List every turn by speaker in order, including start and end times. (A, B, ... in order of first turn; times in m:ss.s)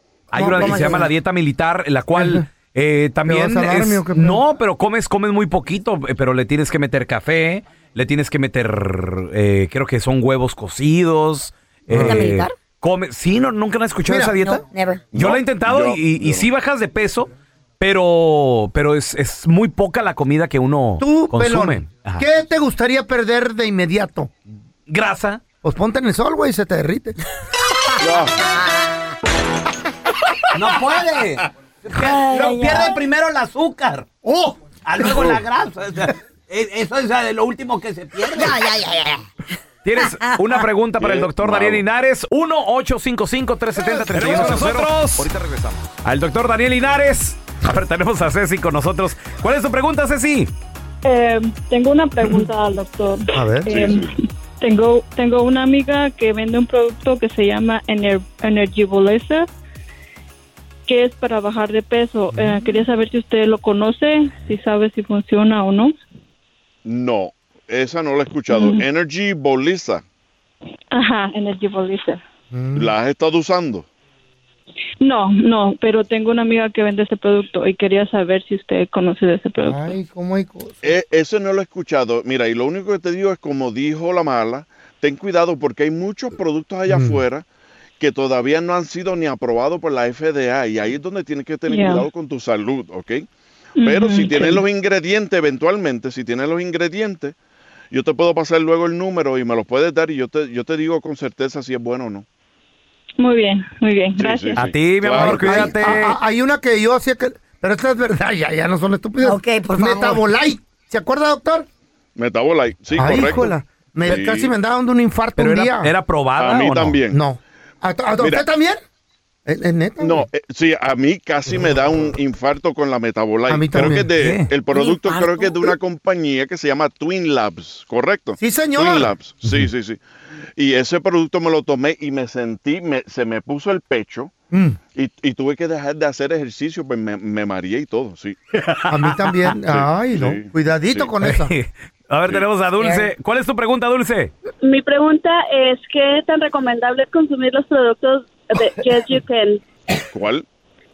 0:00.3-0:22.2 A
0:00.4-0:01.0 B
0:00.4-0:01.1 C
0:02.1-0:02.4 B
0:03.2-0:04.4 B
0:11.9-0:12.3 B
0:11.9-0:12.5 C
0:14.1-0:14.3 B
0:14.1-0:15.0 C
0:15.1-0:16.5 D
0:21.0-0:24.3 B
0:24.9-0:25.4 A
0:25.6-0:27.2 B
0:28.0-0:28.4 D
0:30.6-0:31.3 E
0:31.8-0:38.5 E
0:31.9-0:33.0 C
0:38.3-0:39.2 C
0:39.8-0:50.5 A
0:40.0-0:40.6 C
0:41.0-0:41.8 D
0:43.8-0:44.0 B
0:44.1-0:45.7 E
0:51.0-0:59.5 F
0:53.3-0:53.8 B
0:53.7-0:54.1 D
1:00.9-1:05.9 F
1:06.8-1:10.0 D
1:08.5-1:08.8 F
1:10.9-1:12.2 F
1:12.5-1:12.9 B
1:12.7-1:13.9 D
1:15.0-1:19.9 F
1:19.6-1:20.8 B
1:20.8-1:27.4 D
1:26.9-1:27.2 B
1:28.0-1:33.3 D
1:31.7-1:32.0 F
1:33.8-1:34.6 F
1:33.8-1:37.4 D
1:37.9-1:42.2 D
1:43.2-1:44.6 F
1:44.2-1:45.8 D
1:44.6-1:46.2 A
1:45.1-1:51.7 B
1:49.2-1:50.2 C
1:52.2-1:54.5 D
1:52.9-1:55.9 B
1:55.4-1:57.0 A
1:56.4-1:57.2 D
1:57.1-1:58.8 B
1:58.2-1:58.4 D
1:59.5-2:00.3 B
2:00.0-2:10.0 D
2:03.5-2:04.1 B
2:04.2-2:04.5 A
2:04.7-2:05.7 C
2:08.4-2:09.1 B
2:10.6-2:14.3 D
2:14.5-2:14.8 B
2:14.9-2:18.4 D
2:18.7-2:19.5 A
2:18.9-2:21.5 B
2:19.7-2:21.1 D
2:21.2-2:24.3 A
2:24.6-2:29.6 G
2:30.1-2:30.4 D